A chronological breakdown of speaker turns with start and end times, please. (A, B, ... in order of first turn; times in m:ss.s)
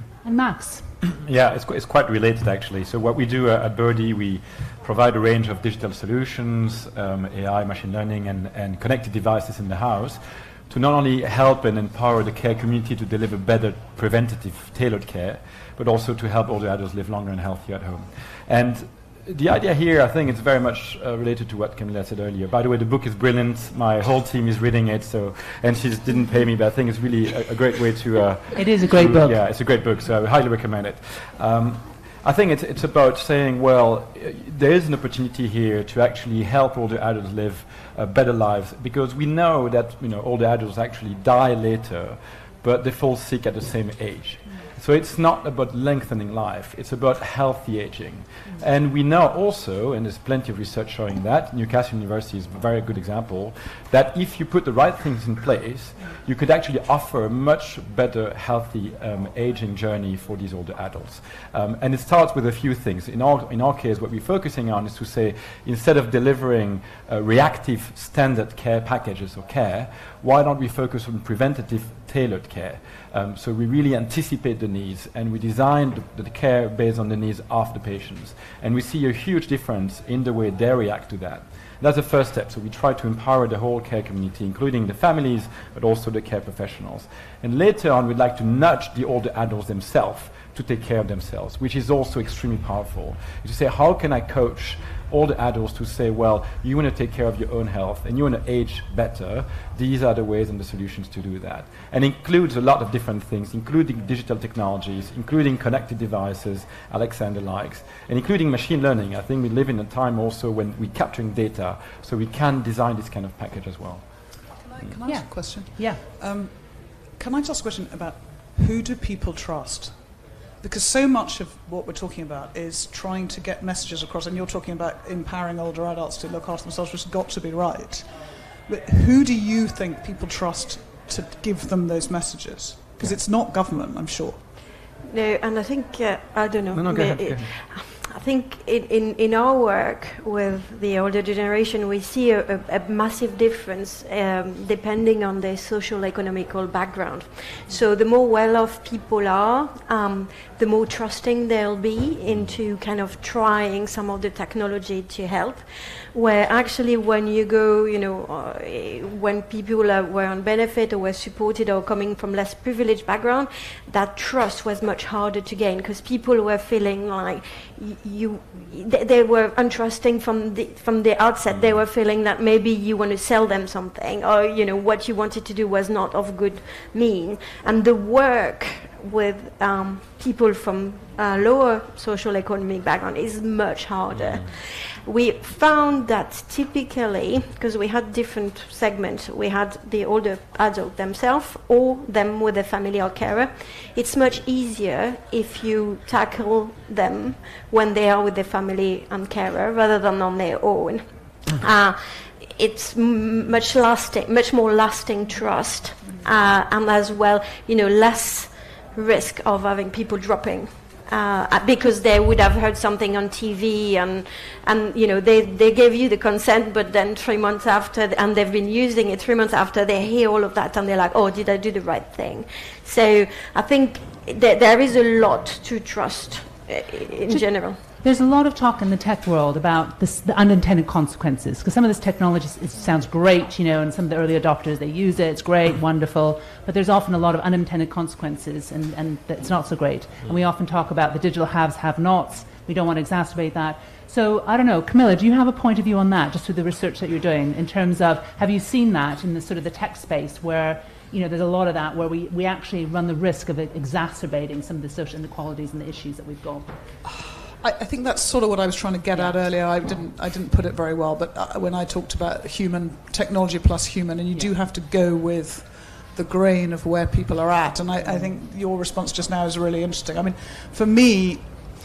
0:00.2-0:00.9 A
0:01.1-1:54.9 B
0:28.5-0:29.4 A
1:54.6-2:00.1 C
1:55.0-1:56.0 A
2:00.6-2:08.1 C
2:08.7-2:14.4 C
2:15.0-3:47.8 D
2:16.7-2:17.5 B
2:51.5-2:51.8 B
3:04.2-3:04.4 B
3:47.3-4:16.7 A
4:17.0-4:31.5 C
4:28.0-4:28.3 A